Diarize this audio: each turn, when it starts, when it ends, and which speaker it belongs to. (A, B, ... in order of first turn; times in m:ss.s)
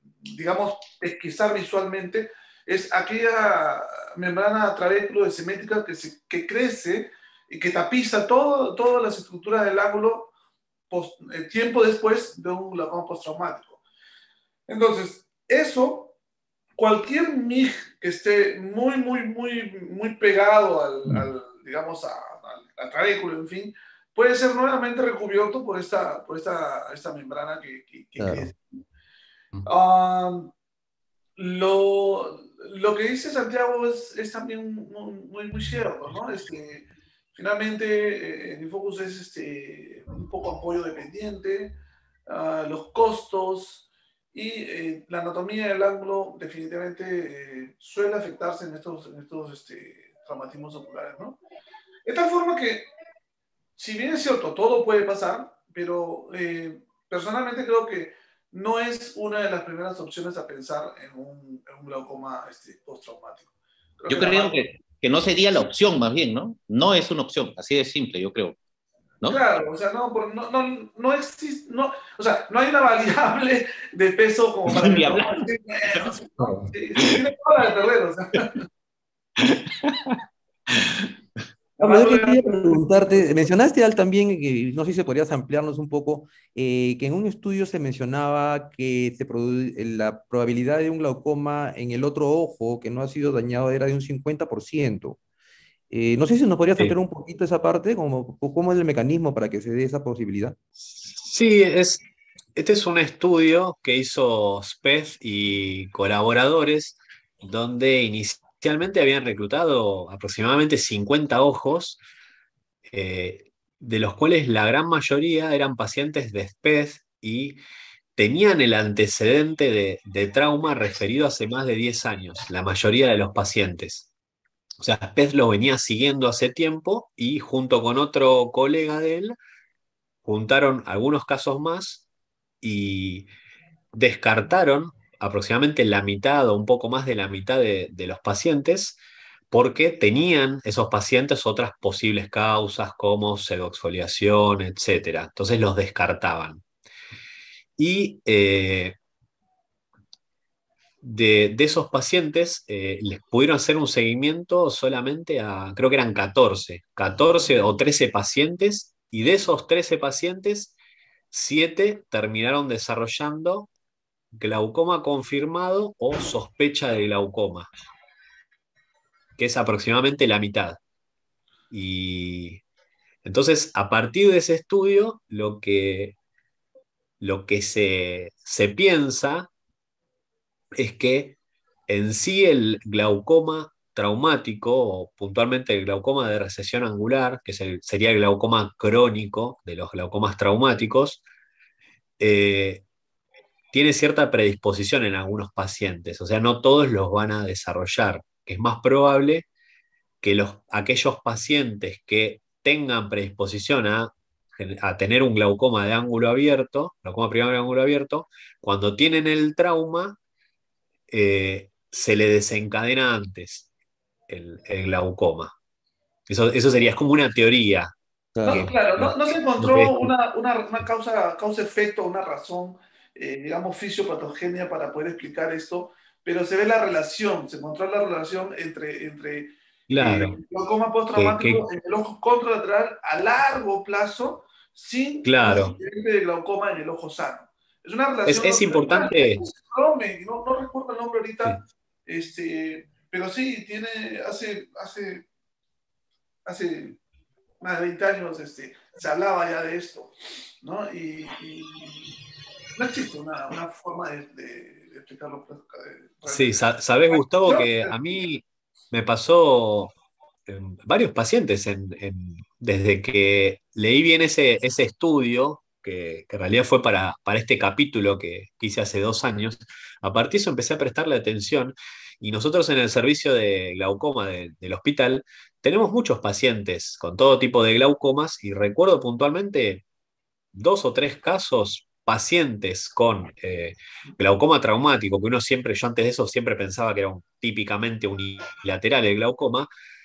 0:00.2-0:10.3 A
0:10.9-0:13.8 A
0:14.7-0:16.2 A
0:16.8-0:28.6 A
0:28.2-0:28.5 B
0:29.6-0:30.5 A
0:31.4-0:41.8 A
0:42.3-0:51.4 A
0:52.1-0:52.9 A
0:53.8-1:03.5 A
1:04.0-1:04.6 A
1:04.1-1:08.6 C
1:09.3-1:18.6 A
1:14.7-1:16.1 C
1:16.4-1:16.6 B
1:21.8-1:35.2 B
1:21.8-1:23.3 A
1:35.9-1:40.6 B
1:40.8-1:42.0 D
1:42.6-1:52.0 D
1:52.9-1:57.6 D
1:58.2-2:04.1 D
2:04.8-2:09.4 D
2:10.2-2:12.0 D
2:12.6-2:13.3 D
2:13.9-2:19.0 D
2:19.5-2:26.6 D
2:27.8-2:29.0 D
2:31.0-2:40.8 D
2:41.3-2:43.7 D
2:44.3-2:47.7 D
2:49.4-2:50.8 D
2:51.7-2:52.6 D
2:53.2-2:56.2 D
2:57.2-2:59.5 D
3:00.8-3:01.4 D
3:01.9-3:11.2 D
3:12.2-3:12.8 D
3:13.7-3:19.5 D
3:20.2-3:30.2 D
3:31.1-3:33.7 D
3:34.3-3:35.5 D
3:36.3-3:37.9 D
3:38.4-3:38.7 B
3:38.4-4:05.3 A
3:39.0-3:40.1 D
3:49.9-3:50.4 D
3:51.1-3:51.6 D
3:55.2-3:55.8 D
3:58.2-3:59.5 D
4:06.5-4:07.0 A
4:07.6-4:12.1 A
4:12.8-4:18.0 A
4:16.3-4:19.9 D
4:20.5-4:39.8 D
4:40.5-4:49.7 D